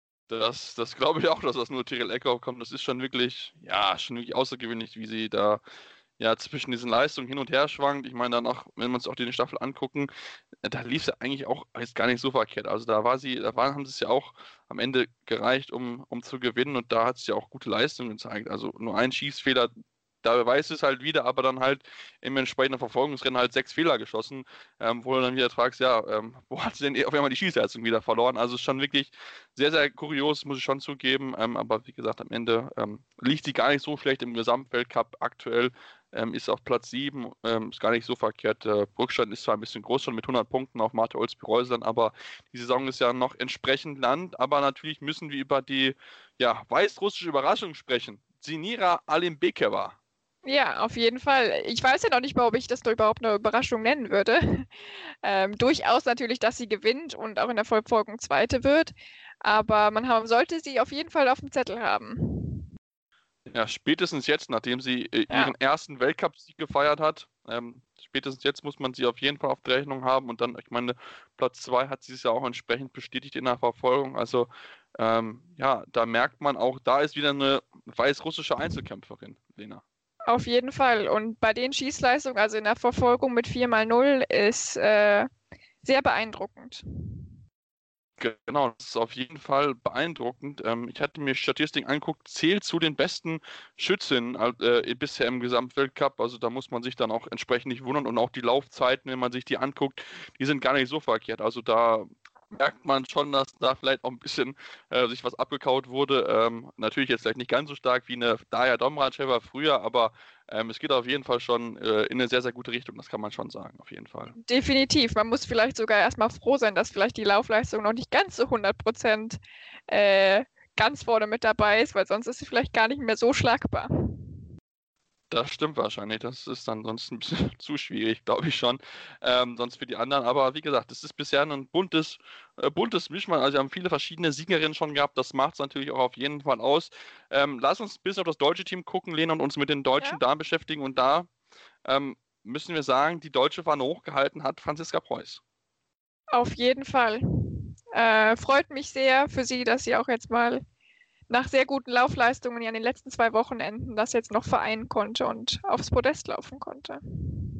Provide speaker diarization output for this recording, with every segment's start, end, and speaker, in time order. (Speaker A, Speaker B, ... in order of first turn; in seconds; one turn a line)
Speaker A: 0.3-5.6
Speaker A: 6.2-10.1
Speaker A: 10.6-19.7
Speaker A: 20.2-50.0
Speaker B: 50.4-54.7
Speaker B: 55.2-62.6
Speaker A: 63.5-79.8
Speaker B: 80.3-85.3
Speaker B: 85.8-86.8
Speaker A: 88.2-114.3
Speaker B: 114.4-124.3
Speaker A: 125.3-141.3
Speaker A: 141.8-145.4
Speaker B: 146.3-150.6
Speaker B: 151.3-157.0